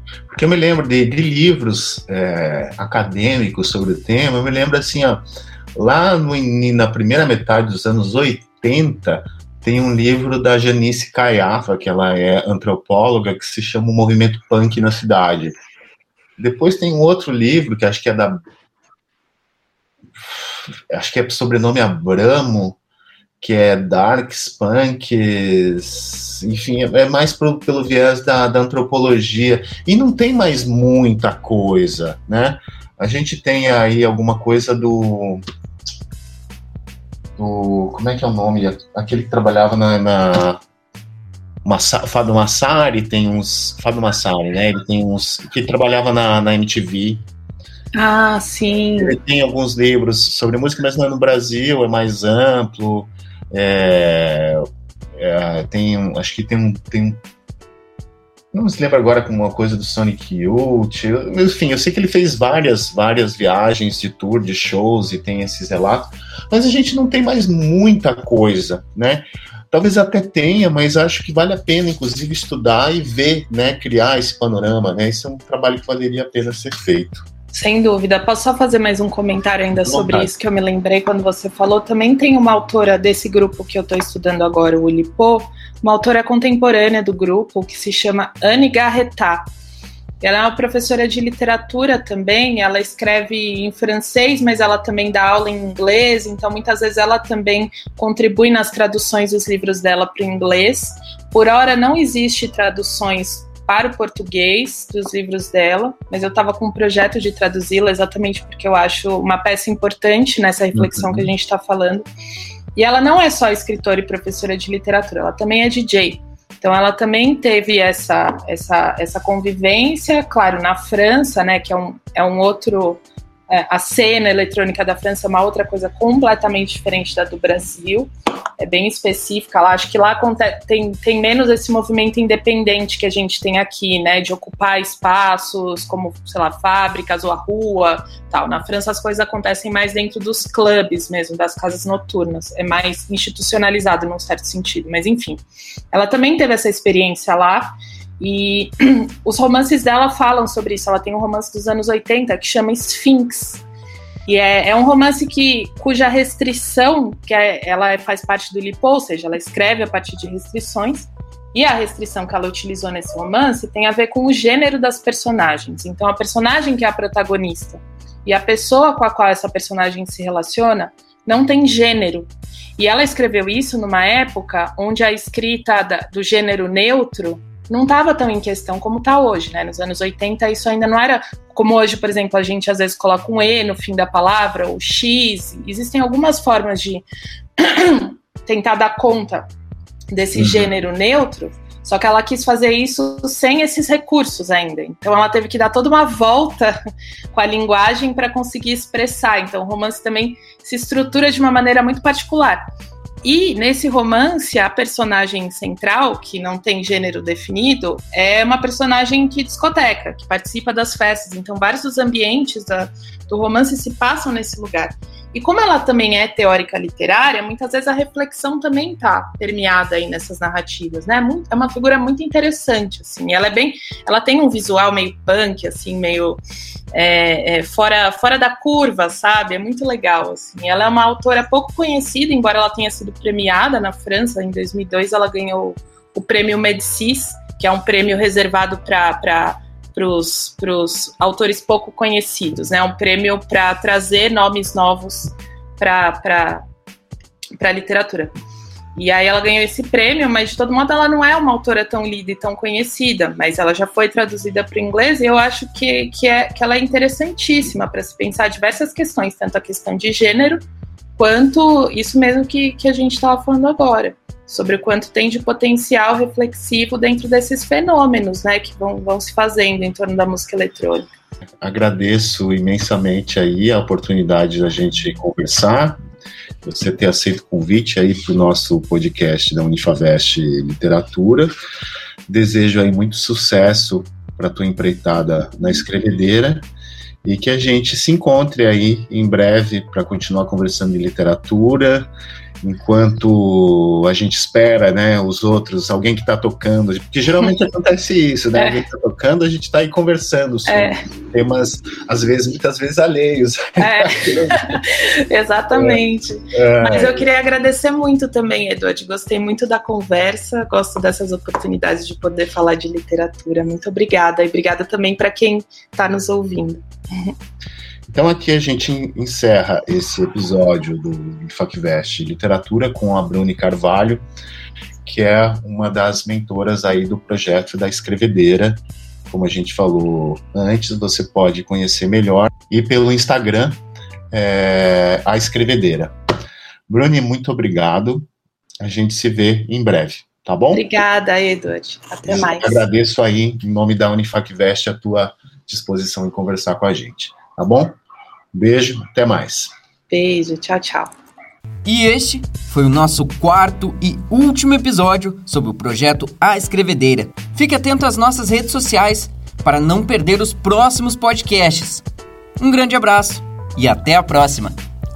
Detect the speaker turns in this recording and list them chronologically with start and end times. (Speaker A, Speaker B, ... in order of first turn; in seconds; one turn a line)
Speaker A: 0.3-5.2
Speaker A: 5.7-15.5
Speaker A: 16.4-18.4
Speaker A: 20.9-22.8
Speaker A: 23.4-35.4
Speaker A: 37.4-40.6
Speaker A: 41.6-47.2
Speaker B: 47.9-49.2
Speaker A: 49.0-54.6
Speaker A: 55.1-57.2
Speaker A: 58.5-77.2
Speaker B: 77.5-89.5
Speaker A: 79.8-80.3
Speaker B: 90.2-112.0
Speaker A: 110.7-111.3
Speaker B: 112.7-153.6
Speaker B: 154.2-187.0
Speaker B: 187.6-189.5
Speaker B: 190.1-196.7
Speaker A: 190.3-190.7
Speaker B: 197.3-202.6
Speaker B: 203.2-226.4
Speaker B: 226.9-246.6
Speaker B: 247.6-248.3
Speaker B: 248.9-260.6
Speaker B: 261.2-271.1
Speaker A: 271.6-276.0
Speaker A: 276.6-281.5
Speaker A: 282.3-286.7
Speaker A: 287.2-292.1
Speaker A: 292.6-304.5
Speaker B: 298.5-298.8
Speaker B: 300.6-301.0
Speaker B: 303.8-317.3
Speaker A: 305.7-306.0
Speaker A: 306.5-307.2
Speaker A: 318.1-324.2
Speaker A: 325.0-333.8
Speaker A: 334.3-336.1
Speaker A: 336.9-338.2
Speaker A: 338.8-340.9
Speaker B: 340.7-342.8
Speaker A: 342.2-348.0
Speaker A: 348.5-349.7
Speaker B: 350.1-351.1
Speaker C: 351.8-362.0
Speaker C: 362.6-364.8